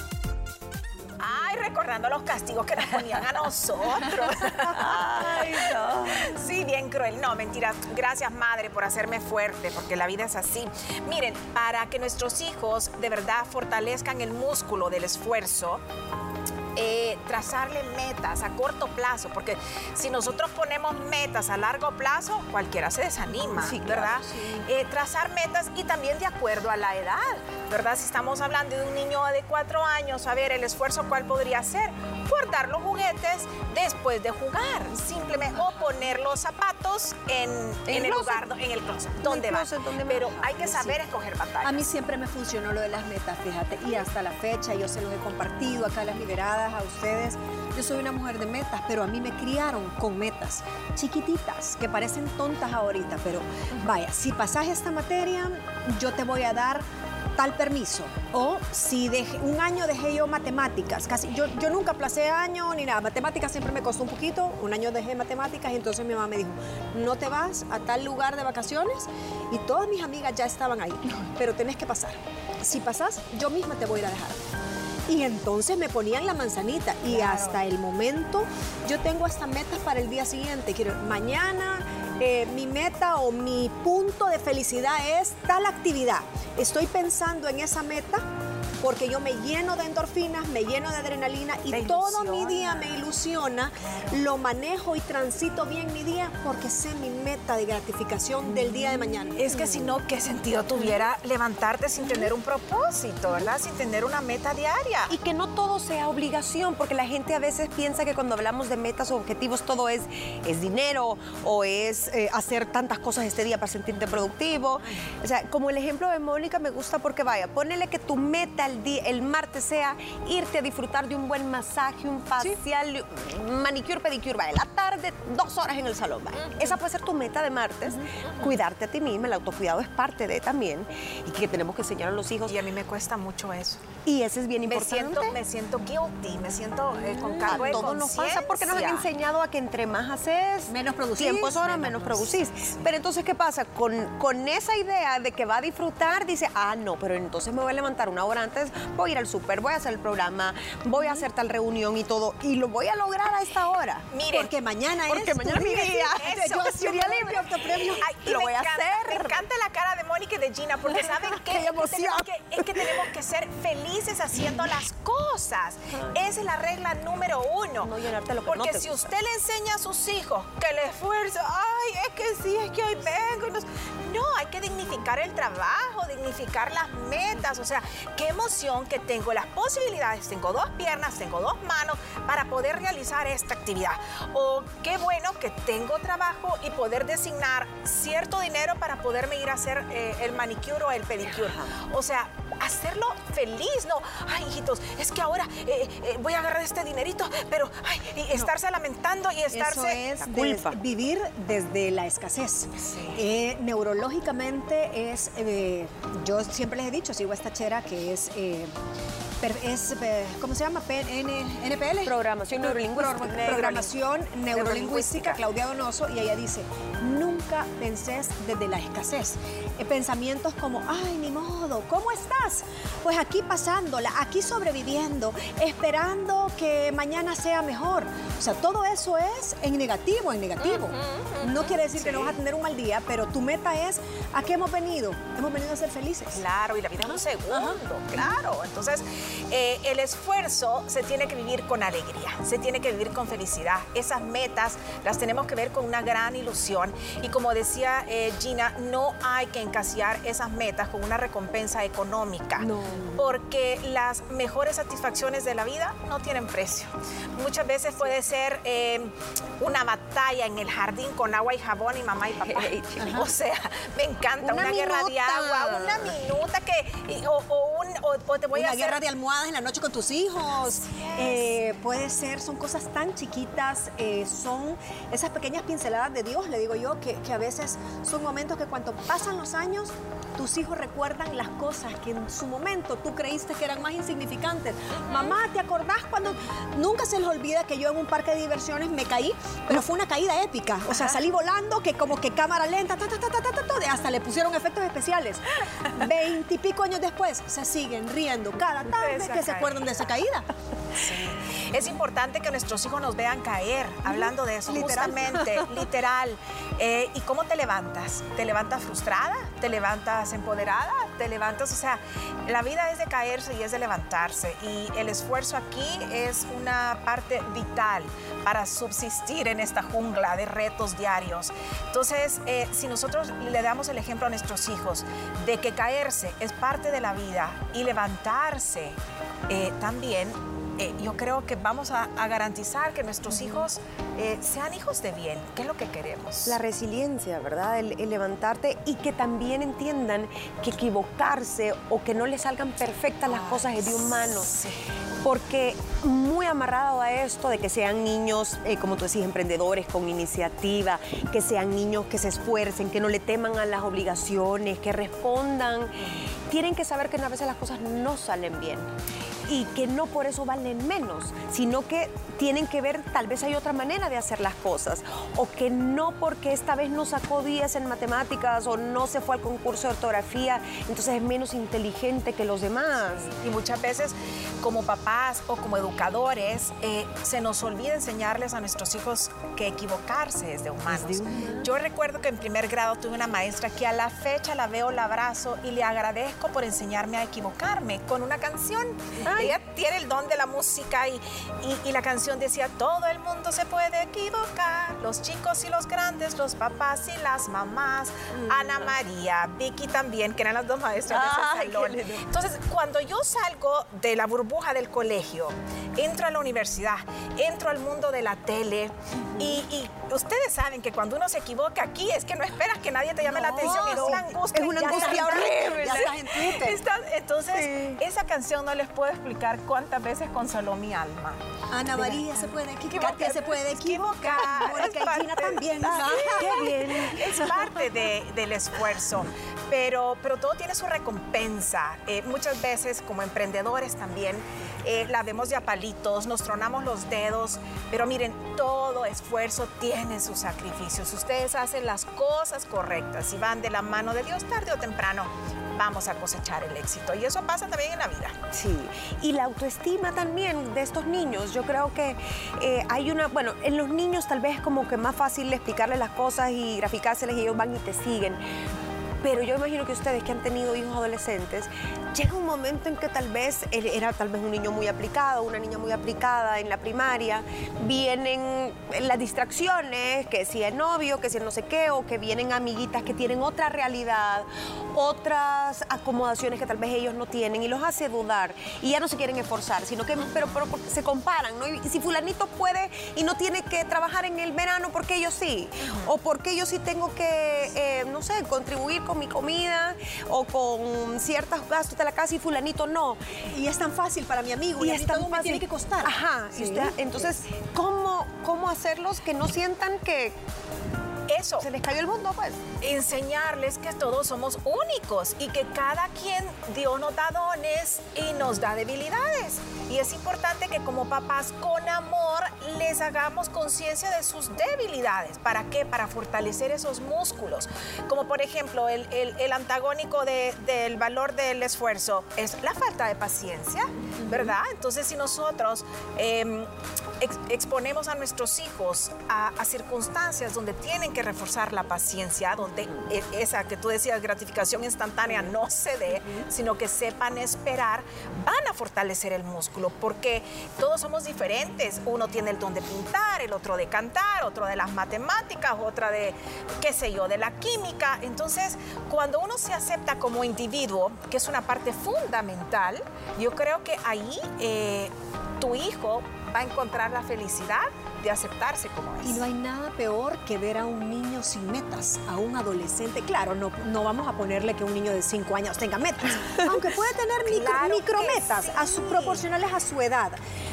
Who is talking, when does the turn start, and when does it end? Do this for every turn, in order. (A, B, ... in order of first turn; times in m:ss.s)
0:01.2-0:15.8 A
0:04.5-0:06.4 B
0:16.7-0:41.9 A
0:23.5-0:24.6 B
0:37.9-0:38.4 B
0:39.2-0:41.0 B
0:41.6-0:56.8 C
0:57.4-1:14.4 C
1:15.1-1:28.2 C
1:17.1-1:17.6 A
1:28.8-1:39.4 C
1:31.7-1:33.0 A
1:33.8-1:34.2 A
1:39.4-1:45.1 A
1:39.4-1:40.0 B
1:45.1-2:12.6 B
2:06.5-2:06.7 A
2:12.5-2:13.8 A
2:14.0-2:15.4 B
2:14.7-2:19.1 A
2:17.2-2:34.0 B
2:17.3-2:17.9 C
2:20.7-2:22.3 C
2:34.1-2:34.5 A
2:34.3-2:38.1 C
2:35.0-2:36.5 B
2:35.9-2:47.9 A
2:37.9-2:39.4 B
2:41.0-2:43.0 B
2:47.8-2:49.1 B
2:48.4-3:20.0 A
3:11.3-3:11.7 B
3:19.5-3:20.8 B
3:19.7-3:28.7 C
3:22.8-3:23.2 A
3:29.4-3:56.4 C
3:32.0-3:33.9 B
3:34.5-3:35.4 A
3:50.6-3:52.3 A
3:56.3-4:29.0 A
3:57.1-3:58.3 C
4:12.6-4:13.2 B
4:22.4-4:23.3 B
4:23.0-4:23.2 C
4:24.4-4:26.1 B
4:28.5-5:00.5 C
4:30.6-4:31.6 A
4:45.1-4:45.3 A
4:58.8-5:00.0 A
5:00.9-5:29.0 A
5:04.7-5:05.2 C
5:04.8-5:05.1 B
5:29.5-5:36.6 A
5:36.4-5:44.6 B
5:43.2-5:44.8 A
5:45.2-5:58.9 B
5:59.5-6:13.3 B
6:13.2-7:01.4 A
6:20.9-6:21.7 B
6:29.2-6:29.5 B
6:38.3-6:38.9 B
6:41.0-6:42.2 B
6:53.3-6:56.1 B
6:53.4-6:56.8 C
6:57.5-6:58.0 B
7:01.7-7:07.3 C
7:02.9-7:28.4 A
7:05.8-7:07.6 B
7:28.5-7:38.4 B
7:39.2-8:13.2 B
8:13.5-8:17.3 C
8:14.8-8:20.4 B
8:21.3-8:21.6 A
8:21.6-8:22.6 B
8:22.8-8:46.7 A
8:47.2-9:19.4 A
9:19.2-9:30.4 C
9:27.4-9:29.5 A